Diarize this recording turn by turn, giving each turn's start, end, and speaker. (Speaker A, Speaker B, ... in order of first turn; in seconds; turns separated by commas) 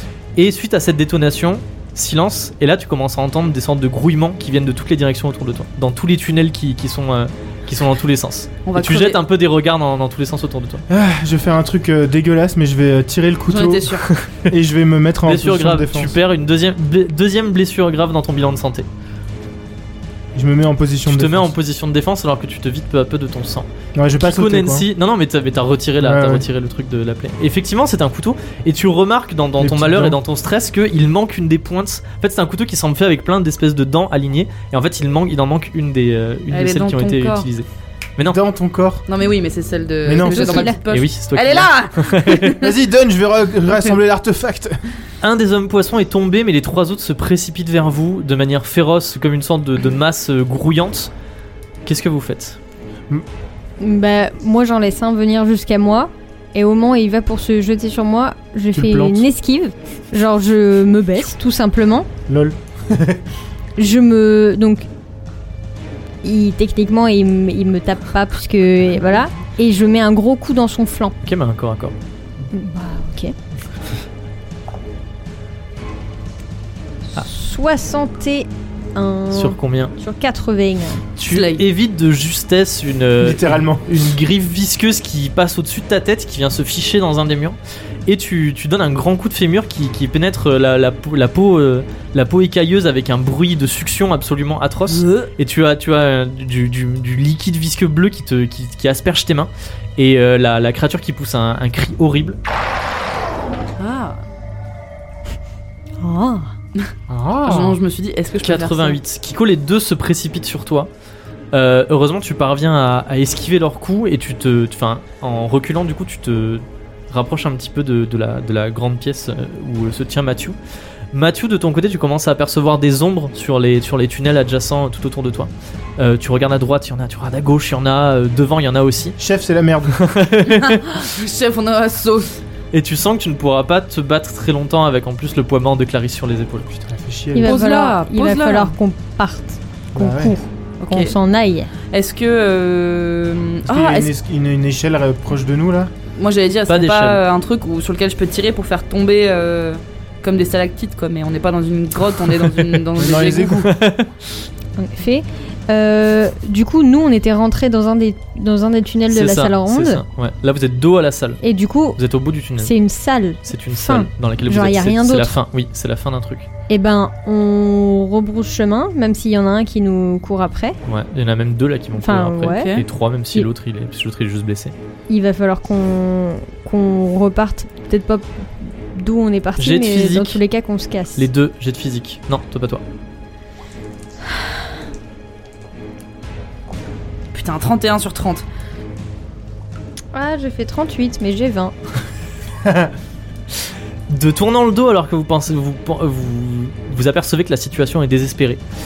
Speaker A: 0.3-10.8, Speaker B: 8.7-9.2, Speaker C: 10.9-16.1, Speaker B: 13.5-14.1, Speaker A: 14.0-14.4, Speaker A: 15.2-18.9, Speaker C: 20.3-21.5, Speaker A: 21.1-23.7, Speaker C: 23.9-24.9, Speaker A: 24.2-38.4, Speaker C: 26.0-26.4, Speaker C: 29.6-30.2, Speaker B: 36.5-37.5, Speaker C: 38.2-39.0, Speaker B: 39.1-42.7, Speaker C: 40.0-40.7, Speaker D: 40.1-40.8, Speaker A: 40.9-42.6, Speaker C: 42.6-44.8, Speaker A: 45.2-51.1, Speaker A: 51.8-52.6, Speaker D: 53.8-62.1, Speaker C: 58.7-59.2, Speaker C: 62.3-63.2, Speaker D: 63.8-64.9, Speaker D: 66.2-71.1, Speaker A: 71.2-71.9, Speaker D: 72.5-73.3, Speaker D: 77.1-81.0, Speaker A: 79.3-79.9, Speaker A: 81.2-102.4, Speaker B: 81.3-81.6, Speaker C: 83.2-83.9, Speaker B: 94.9-95.3, Speaker B: 103.8-104.2, Speaker D: 106.0-106.5, Speaker C: 107.1-107.8, Speaker B: 107.4-109.0, Speaker A: 108.4-110.9, Speaker A: 111.5-120.5, Speaker A: 121.1-129.2, Speaker C: 129.2-130.0, Speaker A: 129.9-131.0, Speaker B: 130.4-132.4, Speaker A: 132.7-136.7, Speaker C: 136.7-137.6, Speaker D: 137.3-141.7, Speaker B: 137.4-138.7, Speaker C: 139.9-140.3, Speaker B: 140.8-141.1, Speaker B: 141.9-144.1, Speaker C: 143.7-145.9, Speaker B: 146.2-153.6, Speaker A: 146.7-147.2, Speaker A: 152.5-152.8, Speaker C: 153.0-153.7, Speaker A: 153.6-154.1, Speaker D: 154.8-160.0, Speaker A: 159.1-161.4, Speaker D: 161.4-162.0, Speaker A: 162.0-162.7, Speaker D: 162.6-165.3, Speaker A: 163.4-166.5, Speaker D: 166.7-170.8, Speaker A: 170.8-174.7, Speaker D: 172.0-172.8, Speaker B: 172.5-172.8, Speaker D: 175.1-181.3, Speaker A: 179.6-180.4, Speaker A: 181.2-182.8, Speaker B: 187.3-188.4, Speaker D: 190.1-191.7, Speaker A: 194.1-198.6